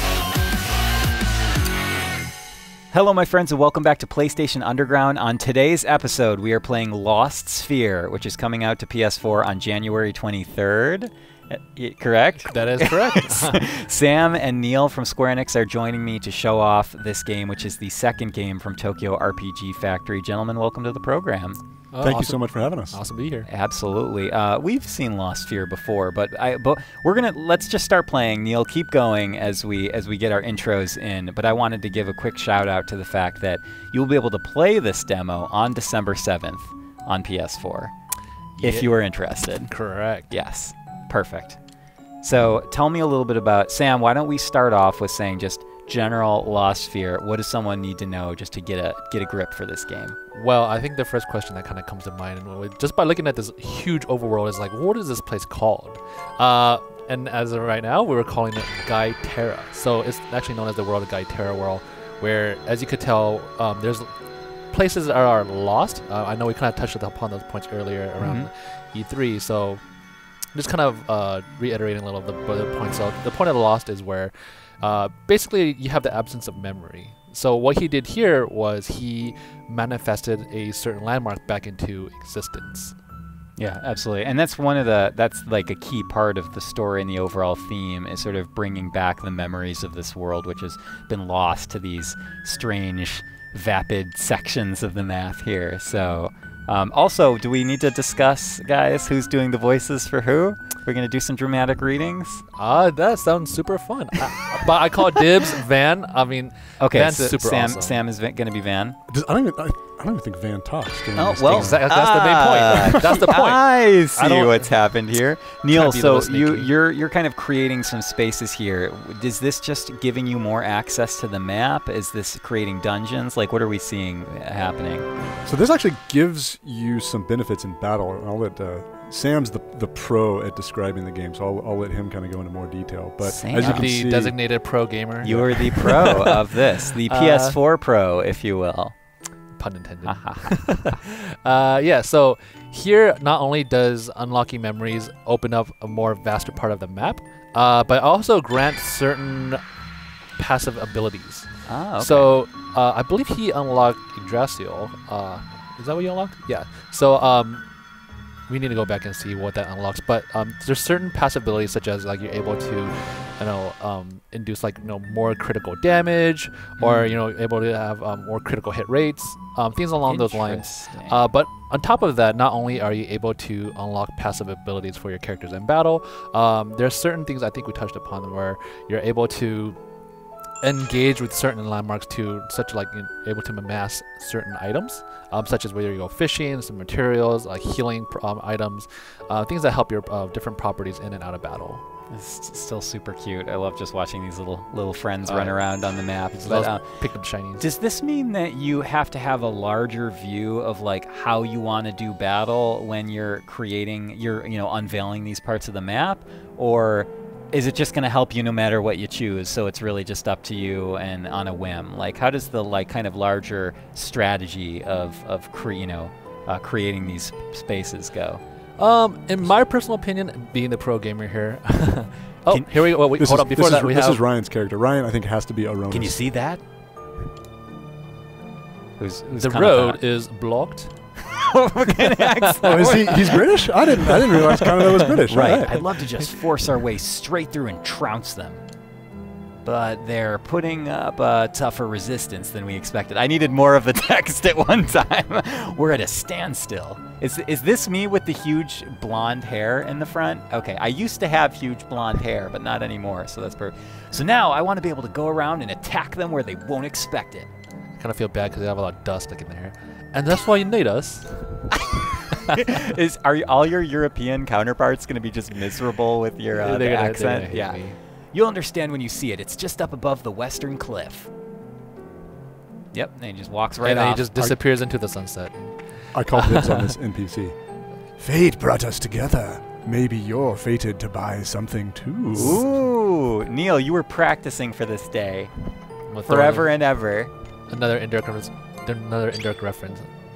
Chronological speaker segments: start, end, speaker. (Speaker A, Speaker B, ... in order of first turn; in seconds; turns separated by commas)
Speaker A: 2.9-21.6, Speaker B: 12.5-13.7, Speaker B: 21.9-23.5, Speaker C: 22.0-23.0, Speaker A: 23.4-37.9, Speaker B: 38.6-38.9, Speaker A: 38.6-39.7, Speaker B: 39.7-40.3, Speaker A: 40.3-41.6, Speaker A: 42.2-50.2, Speaker B: 50.3-64.1, Speaker B: 64.7-69.8, Speaker A: 68.2-68.5, Speaker B: 70.5-82.9, Speaker A: 83.6-102.5, Speaker B: 102.6-108.0, Speaker A: 106.8-109.0, Speaker C: 109.1-111.8, Speaker A: 111.1-125.1, Speaker B: 111.5-114.7, Speaker B: 115.7-116.7, Speaker C: 125.4-134.3, Speaker A: 133.2-133.9, Speaker B: 133.6-137.6, Speaker A: 135.2-138.9, Speaker B: 139.6-149.6, Speaker A: 140.0-141.0, Speaker B: 150.4-157.7, Speaker A: 151.7-152.3, Speaker B: 158.5-179.8, Speaker A: 166.8-167.2, Speaker A: 170.0-171.2, Speaker B: 180.6-191.8, Speaker A: 192.1-196.8, Speaker B: 195.2-195.6, Speaker B: 196.3-197.6, Speaker A: 197.6-218.4, Speaker B: 218.8-224.2, Speaker A: 222.5-222.7, Speaker C: 223.2-226.2, Speaker A: 225.9-226.6, Speaker A: 229.0-230.0, Speaker B: 229.3-230.9, Speaker A: 231.2-238.6, Speaker B: 232.3-233.0, Speaker C: 232.6-235.8, Speaker A: 239.6-257.5, Speaker B: 258.0-261.7, Speaker A: 262.5-267.8, Speaker B: 266.6-268.0, Speaker A: 268.3-271.3, Speaker A: 272.9-274.3, Speaker B: 273.8-275.7, Speaker C: 276.1-277.6, Speaker B: 276.3-276.9, Speaker C: 278.2-282.6, Speaker A: 282.4-285.5, Speaker B: 286.1-286.7, Speaker A: 286.3-287.3, Speaker B: 287.7-290.1